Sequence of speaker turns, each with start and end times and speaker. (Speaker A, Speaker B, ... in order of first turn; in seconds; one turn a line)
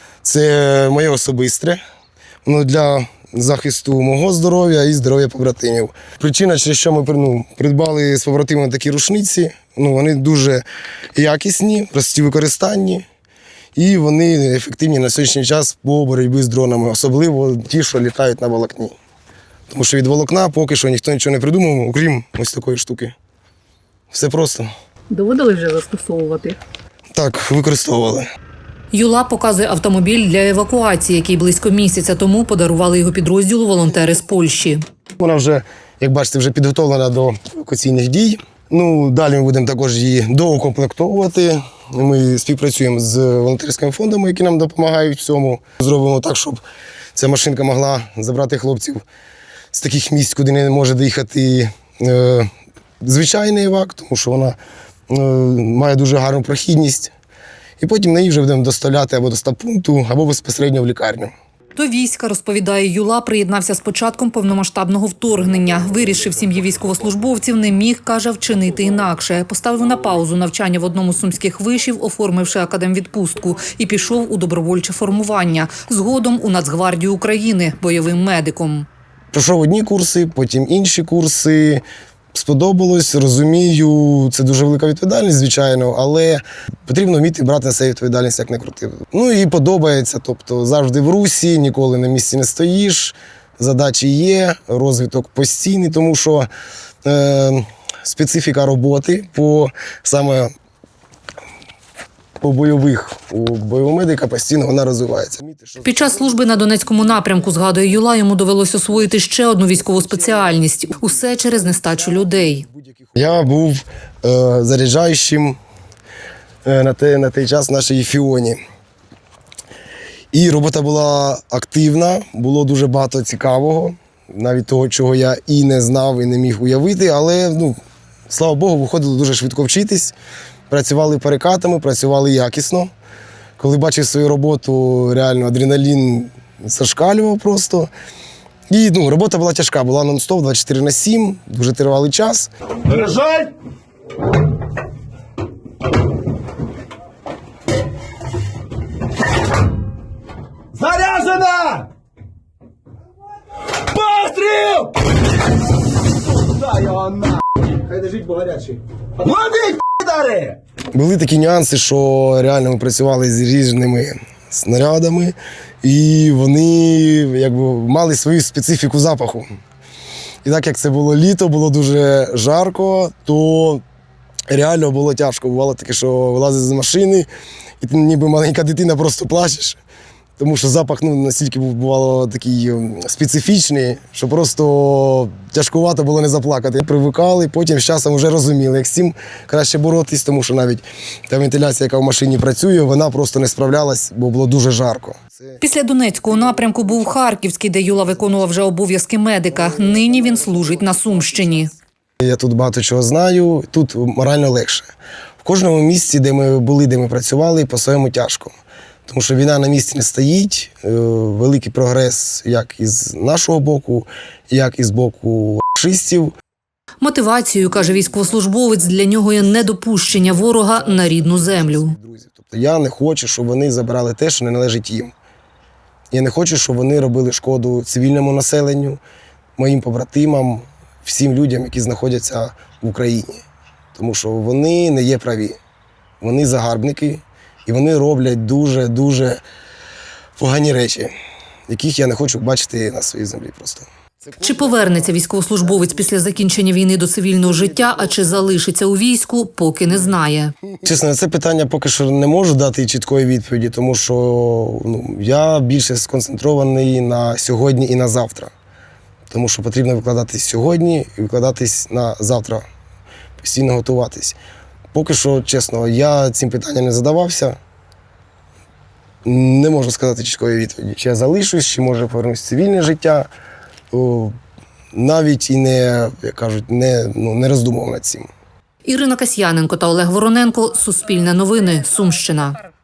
Speaker A: 0.2-1.8
Speaker A: 2.4-13.0
Speaker A: 13.8-18.9
Speaker A: 19.7-23.1
Speaker A: 24.1-24.7
Speaker B: 25.3-25.9
Speaker A: 27.1-28.2
Speaker C: 28.9-34.8
Speaker A: 35.2-46.6
Speaker A: 47.1-49.0
Speaker A: 49.7-52.5
Speaker A: 53.0-54.6
Speaker A: 55.1-57.1
Speaker A: 57.8-61.3
Speaker C: 61.8-78.9
Speaker A: 79.3-96.5
Speaker A: 97.0-100.5
Speaker A: 102.4-108.0
Speaker C: 105.8-112.6
Speaker A: 108.7-109.1
Speaker A: 109.7-115.6
Speaker A: 116.6-118.6
Speaker A: 120.3-127.8
Speaker A: 128.3-130.2
Speaker A: 130.7-132.9
Speaker A: 133.6-137.9
Speaker A: 138.7-142.5
Speaker B: 142.9-143.5
Speaker B: 150.7-151.9
Speaker B: 153.8-155.0
Speaker B: 156.5-160.6
Speaker A: 160.9-169.5
Speaker A: 170.4-173.8
Speaker A: 174.5-177.3
Speaker A: 177.8-179.8
Speaker A: 180.4-197.1
Speaker C: 195.6-201.7
Speaker A: 198.1-198.5
Speaker A: 199.5-204.9
Speaker A: 205.4-208.6
Speaker A: 209.1-216.3
Speaker C: 217.0-221.9
Speaker A: 217.6-225.1
Speaker A: 226.1-229.0
Speaker A: 229.6-233.4
Speaker A: 233.9-235.6
Speaker A: 236.2-239.4
Speaker A: 240.4-241.1
Speaker A: 241.7-246.6
Speaker C: 244.4-250.5
Speaker A: 247.3-248.6
Speaker A: 250.8-258.5
Speaker A: 259.3-262.6
Speaker A: 263.4-264.4
Speaker A: 264.9-267.6
Speaker A: 269.2-273.3
Speaker A: 273.9-274.4
Speaker A: 274.9-278.3
Speaker C: 278.8-282.6